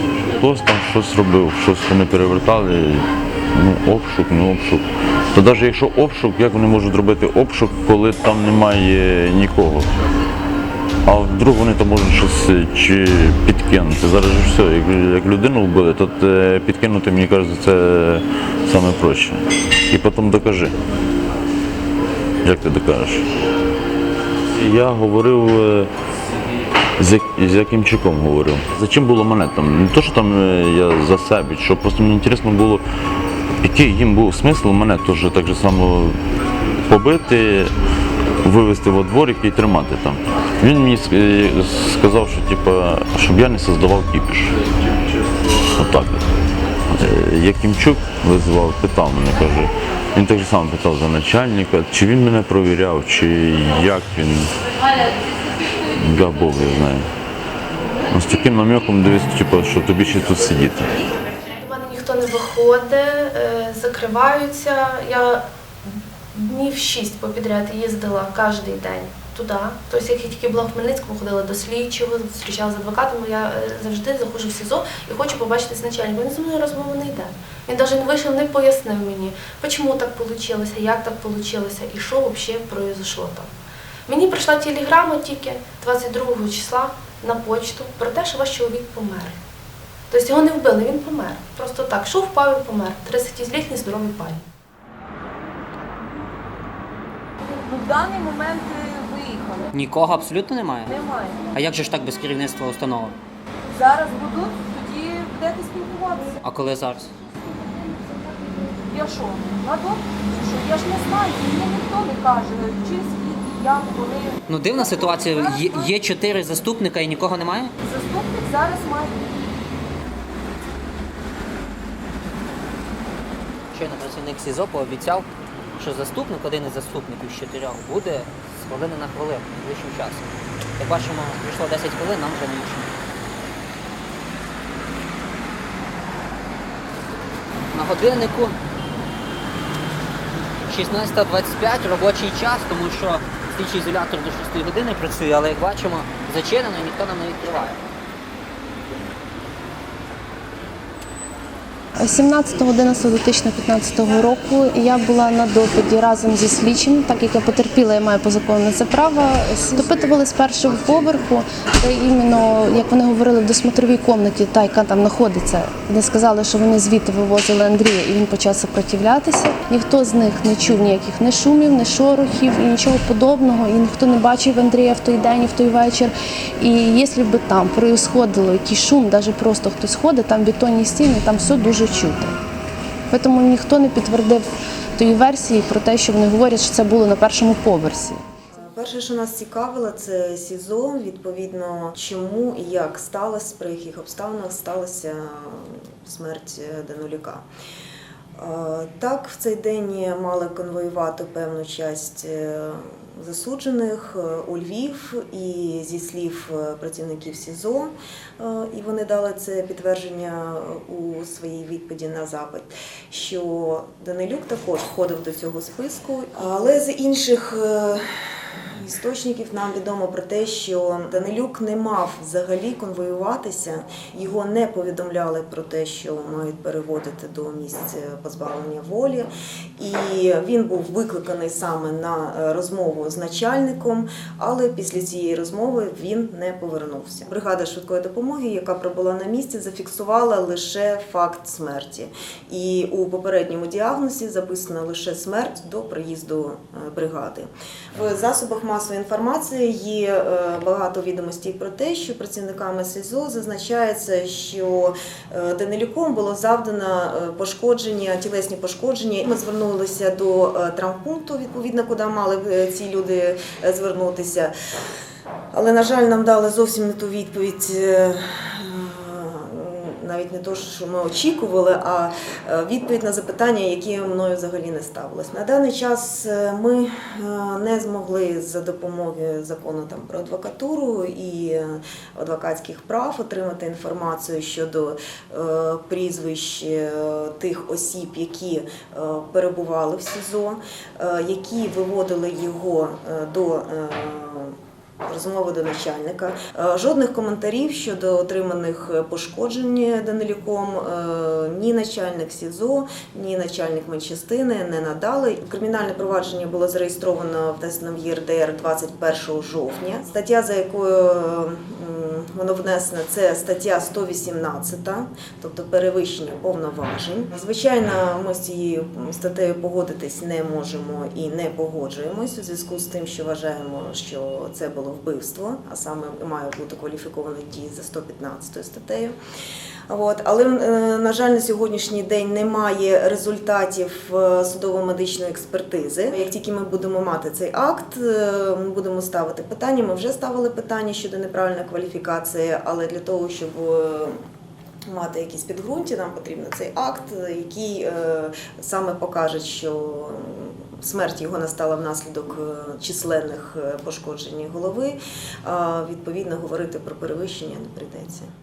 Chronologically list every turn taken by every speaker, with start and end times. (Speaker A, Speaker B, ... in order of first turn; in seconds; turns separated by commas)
Speaker A: 0.3-9.9, Speaker A: 11.0-20.8, Speaker A: 22.4-23.2, Speaker A: 24.5-25.9, Speaker A: 27.0-32.8, Speaker A: 33.6-36.2, Speaker A: 36.8-37.7, Speaker A: 38.4-44.5, Speaker A: 45.7-46.3, Speaker A: 46.9-54.5, Speaker A: 56.0-57.1, Speaker A: 58.1-60.9, Speaker B: 61.6-65.4, Speaker B: 66.3-83.5, Speaker B: 84.1-89.4, Speaker B: 90.1-94.4, Speaker C: 97.7-99.7, Speaker D: 99.7-100.9, Speaker C: 100.8-101.6, Speaker D: 101.5-103.1, Speaker C: 103.7-106.4, Speaker D: 106.4-107.1, Speaker C: 108.9-116.0, Speaker D: 114.5-117.7, Speaker C: 117.8-119.5, Speaker D: 123.7-125.3, Speaker D: 125.8-130.3, Speaker D: 130.8-132.9, Speaker D: 137.7-138.6, Speaker D: 140.7-147.8, Speaker B: 152.0-182.4, Speaker B: 183.1-188.2, Speaker E: 188.6-197.4, Speaker E: 198.4-218.1, Speaker E: 218.7-264.5, Speaker E: 265.5-329.1, Speaker E: 329.9-344.1, Speaker E: 344.9-358.3